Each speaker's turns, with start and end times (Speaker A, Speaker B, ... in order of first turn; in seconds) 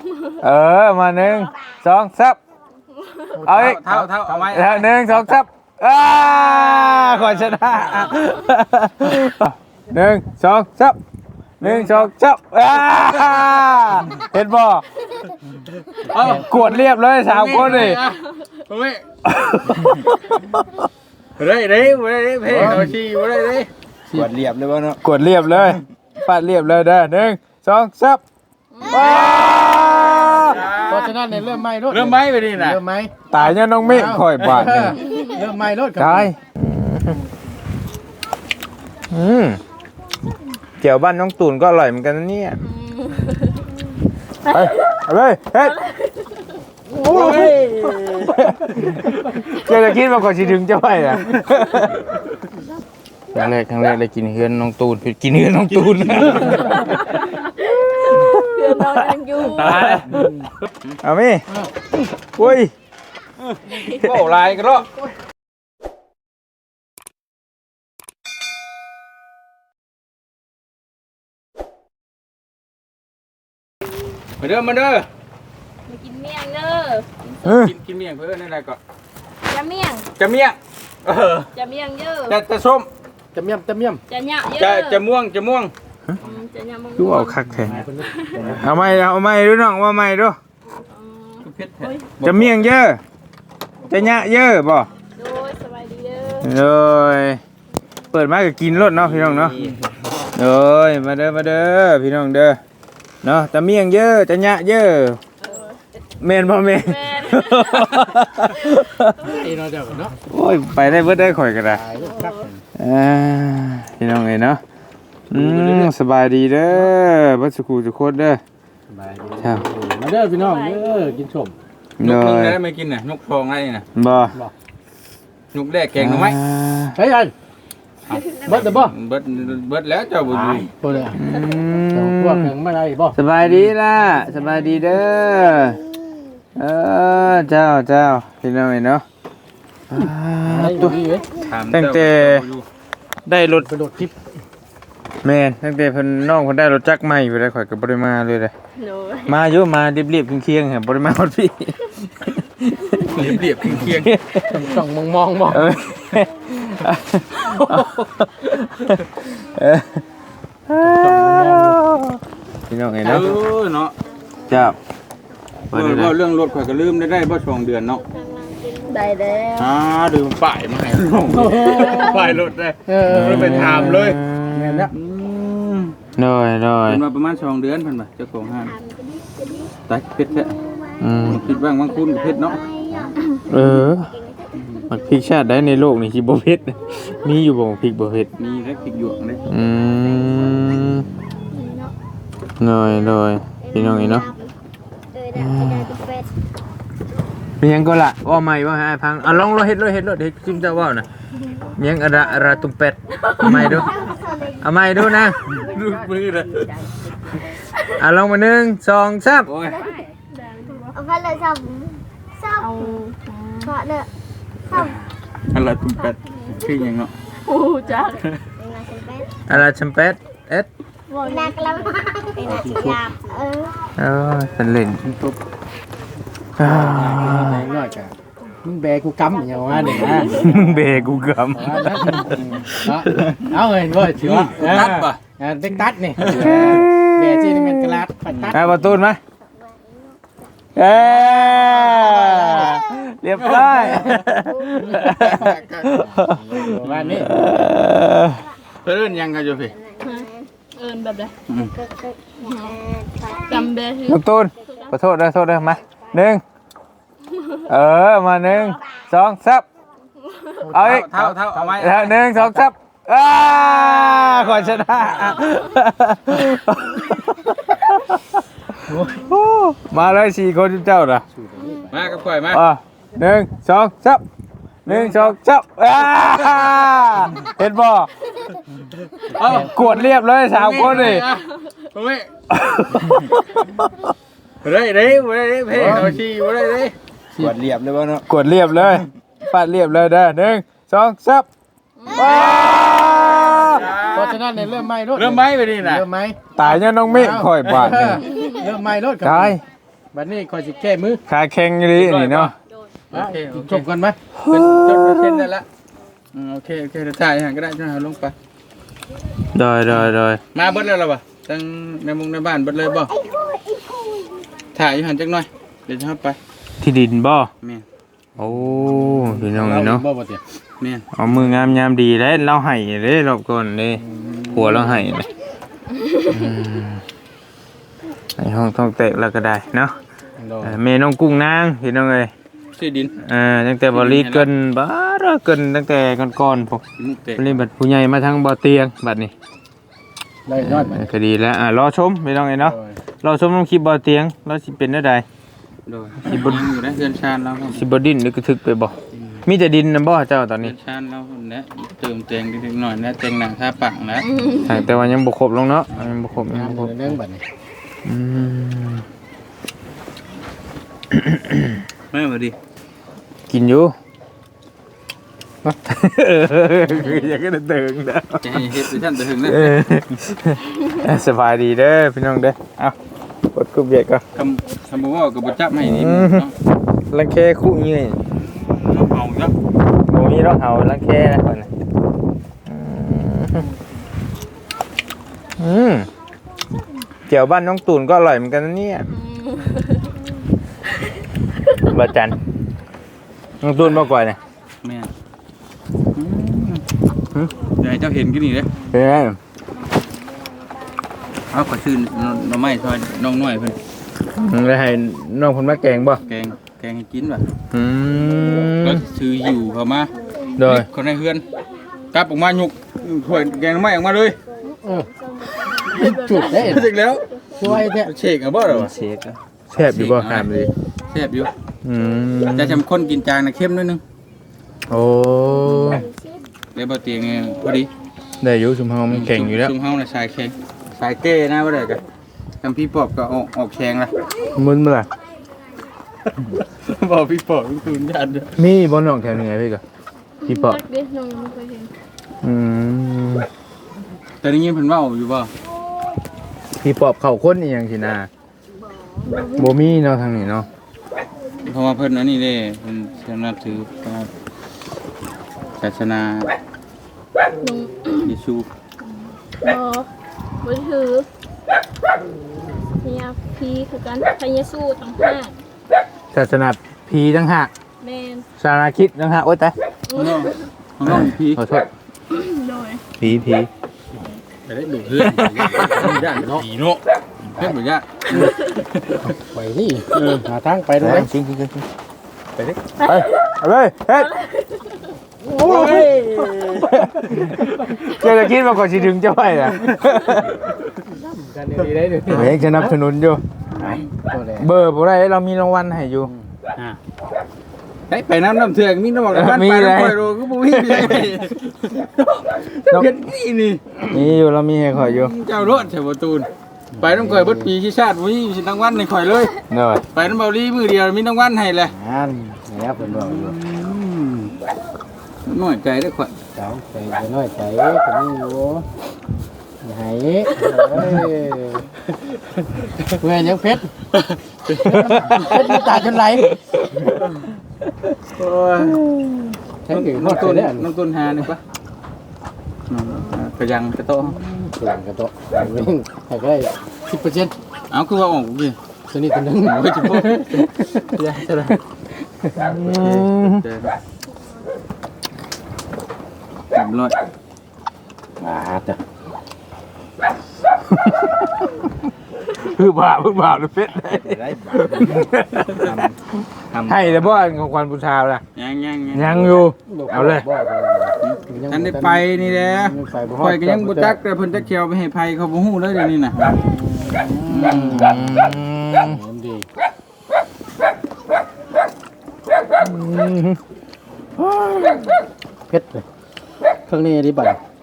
Speaker A: 0.4-2.4, 3.4-3.8, 4.5-11.0, 11.6-14.8, 16.2-18.0, 19.2-20.9, 25.0-28.2, 28.9-30.6, 33.3-35.0, 36.0-37.2, 39.1-39.6, 40.8-42.6, 44.5-45.8, 47.1-47.5, 48.3-48.9, 49.5-52.1, 53.3-56.7, 58.2-60.4, 61.0-61.4, 62.4-62.7, 77.4-77.7, 87.0-87.8, 88.4-90.4, 92.2-93.0, 93.9-94.9, 96.4-97.4, 98.1-99.6, 100.3-102.6, 103.2-105.2, 106.2-109.4, 110.3-111.8, 112.8-114.6, 115.3-118.4, 119.4-119.7, 122.0-122.6, 124.0-124.4, 126.0-127.0, 131.1-132.5, 133.1-135.8, 136.6-139.0, 139.9-141.0, 141.7-142.5, 143.2-143.7, 145.2-148.5, 149.2-154.8, 155.5-160.0, 160.7-163.4, 164.5-164.8, 165.7-166.2, 173.0-174.9, 176.2-177.0, 181.0-181.5, 182.9-184.1, 184.9-188.3, 189.5-191.1, 192.6-194.3, 195.3-195.9, 197.6-201.1, 201.8-203.9, 204.6-205.4, 208.0-209.5, 219.5-220.7, 224.0-225.1, 226.6-227.7, 229.8-233.4, 236.2-239.2, 240.8-248.4, 254.1-256.4, 257.7-259.7, 260.7-271.2, 272.5-274.2, 274.9-278.1, 279.5-281.3, 282.5-284.1, 288.3-291.5, 292.1-293.9, 296.6-298.3, 299.2-299.6, 301.3-302.5, 304.4-305.5, 309.5-310.4, 316.8-317.5, 318.4-320.1, 321.1-325.3, 326.3-327.0, 328.4-329.9, 330.6-332.3, 333.2-336.8, 337.4-339.3, 340.6-345.2, 346.2-346.7, 347.7-350.8, 354.6-357.2, 358.1-359.1, 361.1-361.9, 363.5-364.0, 365.6-372.9, 373.5-374.2, 375.8-376.5, 377.1-378.3, 380.1-381.7, 382.7-383.7, 385.6-386.1, 387.3-389.1, 391.9-392.4, 393.6-394.4, 398.9-399.4, 404.2-406.2, 407.7-409.0, 410.6-410.9, 418.7-420.7, 421.8-422.8, 424.9-426.1, 428.4-429.7, 434.5-435.1, 438.6-439.8, 440.5-440.8, 442.4-443.5, 446.8-448.3, 449.6-450.7, 466.3-467.7, 468.6-469.8, 471.1-471.9, 473.2-473.7, 475.2-476.1, 481.0-481.9, 483.0-484.3, 485.6-486.1, 486.8-490.5, 492.3-493.4, 494.6-496.3, 499.3-501.3, 504.1-505.4, 509.7-510.1, 525.1-525.3, 529.0-529.5, 542.5-543.6, 550.8-551.5, 552.5-556.1, 556.8-558.4, 559.1-560.5, 566.8-569.2, 572.8-573.6
Speaker B: 3.3-5.4, 16.1-16.5, 22.5-22.9, 30.7-36.3, 60.1-60.4, 83.3-84.0, 87.6-88.8, 109.2-110.2, 111.7-112.6, 118.9-121.5, 127.0-127.3, 128.4-128.9, 130.3-131.2, 131.9-133.2, 140.4-141.3, 143.6-144.2, 154.5-155.7, 157.5-158.0, 160.8-161.8, 171.3-172.3, 172.9-174.9, 222.4-223.0, 226.6-231.0, 231.5-239.0, 244.8-247.4, 260.6-261.6, 271.3-272.1, 279.3-279.7, 285.7-286.2, 294.1-296.4, 297.1-299.6, 300.1-301.2, 303.1-304.2, 318.4-320.4, 324.0-325.0, 330.4-330.8, 340.5-341.1, 342.6-343.0, 356.3-357.4, 414.7-415.1, 415.9-416.9, 417.6-418.1, 475.0-476.6, 479.4-481.3, 485.5-486.1, 491.1-492.9, 493.8-494.7, 496.2-496.5, 506.9-507.7, 511.9-513.6, 516.5-518.9, 519.8-521.9, 523.2-523.9, 524.8-526.5, 529.9-530.9, 534.2-537.5, 539.1-541.1, 548.4-549.0, 554.1-554.4, 559.9-564.2, 567.0-569.7, 574.4-575.0, 575.7-576.0, 576.9-577.6
Speaker C: 3.5-4.8, 6.8-8.1, 11.6-12.1, 15.8-19.0, 21.4-23.7, 28.9-29.3, 30.3-31.2, 31.9-32.8, 46.9-48.9, 55.7-56.8, 59.6-61.0, 63.5-64.9, 74.4-75.1, 77.4-78.8, 80.2-81.5, 82.3-82.9, 84.5-85.7, 91.4-92.7, 99.5-99.8, 115.3-115.9, 122.0-123.9, 125.5-126.4, 128.1-130.7, 133.4-133.7, 141.4-142.7, 153.1-154.1, 163.0-163.9, 165.7-168.0, 169.6-174.2, 174.9-175.9, 176.9-178.7, 179.9-180.5, 181.2-182.6, 188.4-189.4, 205.5-206.7, 209.4-209.8, 215.5-217.1, 234.1-235.2, 236.2-236.8, 238.3-238.5, 243.4-244.1, 245.2-245.9, 246.8-247.4, 248.8-249.7, 260.8-262.1, 263.7-265.3, 271.9-272.6, 274.9-275.4, 279.4-282.3, 284.6-286.9, 292.1-294.4, 295.1-296.1, 301.9-302.5, 303.1-303.9, 304.5-305.7, 306.3-308.4, 310.0-313.1, 314.8-316.4, 320.8-321.1, 332.8-333.1, 333.9-334.5, 337.0-337.6, 345.9-347.8, 349.2-349.4, 350.6-354.3, 362.1-362.6, 368.4-369.8, 374.4-376.5, 378.5-379.5, 393.8-394.1, 394.8-395.1, 396.1-396.8, 397.8-398.7, 401.5-403.8, 406.2-407.5, 408.8-411.5, 412.1-414.4, 416.5-418.9, 419.8-420.5, 421.1-421.5, 422.5-424.0, 426.8-427.9, 429.1-432.0, 432.6-434.1, 436.6-438.5, 444.4-445.5, 451.6-454.3, 455.8-456.5, 458.2-458.7, 470.1-471.6, 474.7-477.0, 477.6-479.3, 480.1-480.4, 485.5-487.5, 498.1-504.2, 505.1-506.5, 507.0-509.5, 510.1-511.9, 513.0-514.5, 515.5-516.3, 524.1-525.9, 528.3-529.0, 529.9-531.6, 532.9-534.4, 537.9-538.8, 539.6-541.8, 542.7-543.9, 546.7-547.1, 558.5-559.6, 561.2-566.6, 567.5-568.0
Speaker D: 24.1-25.0, 98.9-99.8, 287.4-288.2
Speaker E: 28.7-29.3, 42.6-43.7, 44.4-44.9, 45.6-46.3, 47.1-47.4, 56.9-59.9, 63.7-64.1, 75.9-77.6, 79.5-80.1, 81.5-82.4, 84.1-85.0, 86.2-87.5, 88.1-88.4, 90.9-92.2, 95.2-96.5, 105.4-105.8, 106.8-108.2, 112.0-112.4, 120.4-121.2, 128.1-128.5, 148.8-149.4, 168.9-169.7, 191.5-191.9, 203.2-203.7, 210.3-211.0, 212.6-213.8, 217.4-218.2, 221.1-222.0, 250.0-251.3, 252.4-252.8, 253.5-254.2, 260.4-260.6, 292.0-292.6, 298.3-298.7, 354.2-354.8, 389.1-390.0, 415.9-416.5, 440.4-441.9, 449.2-449.8, 457.6-458.4, 459.6-460.1, 460.6-461.3, 463.0-465.6, 468.0-468.5, 470.1-470.7, 472.3-473.1, 483.0-483.3, 484.3-484.6
Speaker F: 168.0-169.5, 178.7-179.7, 180.5-181.1, 182.2-185.2, 188.6-191.0, 193.6-194.5, 195.1-196.3, 203.7-204.7, 209.7-210.0, 210.9-213.0, 213.7-214.1, 214.7-215.0, 218.6-219.4, 221.2-223.7, 239.5-240.2, 241.2-242.7, 249.7-250.5, 251.8-253.8, 254.7-254.9, 313.1-314.4, 415.4-415.7